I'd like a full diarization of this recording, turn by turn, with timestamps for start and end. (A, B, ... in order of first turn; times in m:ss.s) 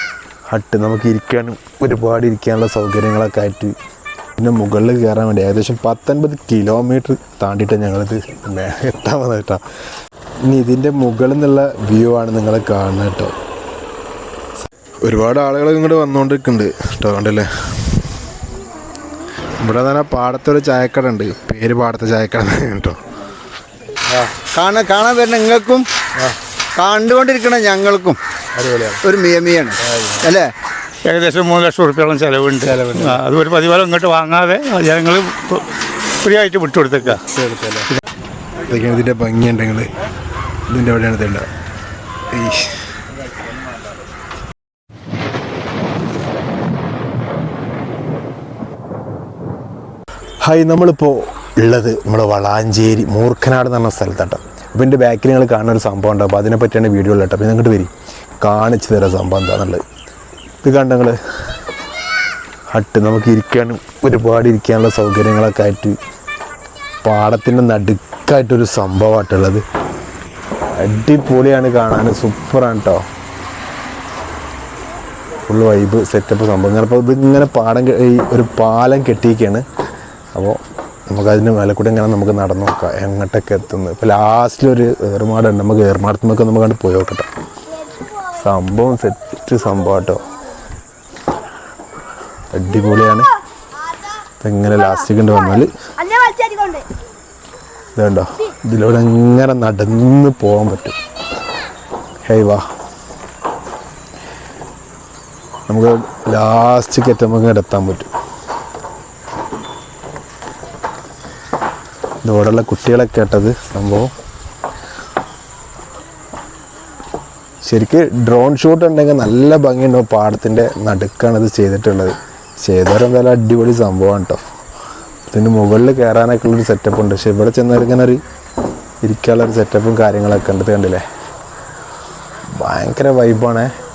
0:00.5-0:03.7 A
0:04.4-0:09.6 A
0:10.4-0:13.3 A
0:15.0-0:17.5 A
0:19.6-0:23.0 A
0:24.5-0:25.8 B
0:26.8-0:28.2 B
0:28.6-0:29.0 A
0:29.0-0:30.5 B
0:29.8-0:30.2 A
0:31.1-0:35.6 C
0:32.6-0:33.2 A
0:36.2-0:37.2 C
0:37.0-0:37.9 A
0:38.7-0:39.9 A
0:40.7-0:41.5 A
0:42.3-0:42.7 A
0:50.4-0:59.8 A
1:00.6-1:01.2 A
1:02.7-1:06.0 A
1:07.0-1:09.6 A
1:10.8-1:13.0 A
1:15.5-1:19.6 A
1:21.1-1:27.3 A
1:28.4-1:30.2 A
1:32.5-1:33.3 A
1:34.4-1:35.7 A
1:37.9-1:40.9 A
1:42.2-1:42.6 A
1:45.7-1:48.1 A
1:52.2-1:54.1 A
1:57.6-2:04.4 A
2:05.3-2:08.2 A
2:09.0-2:11.0 A
2:12.6-2:13.7 A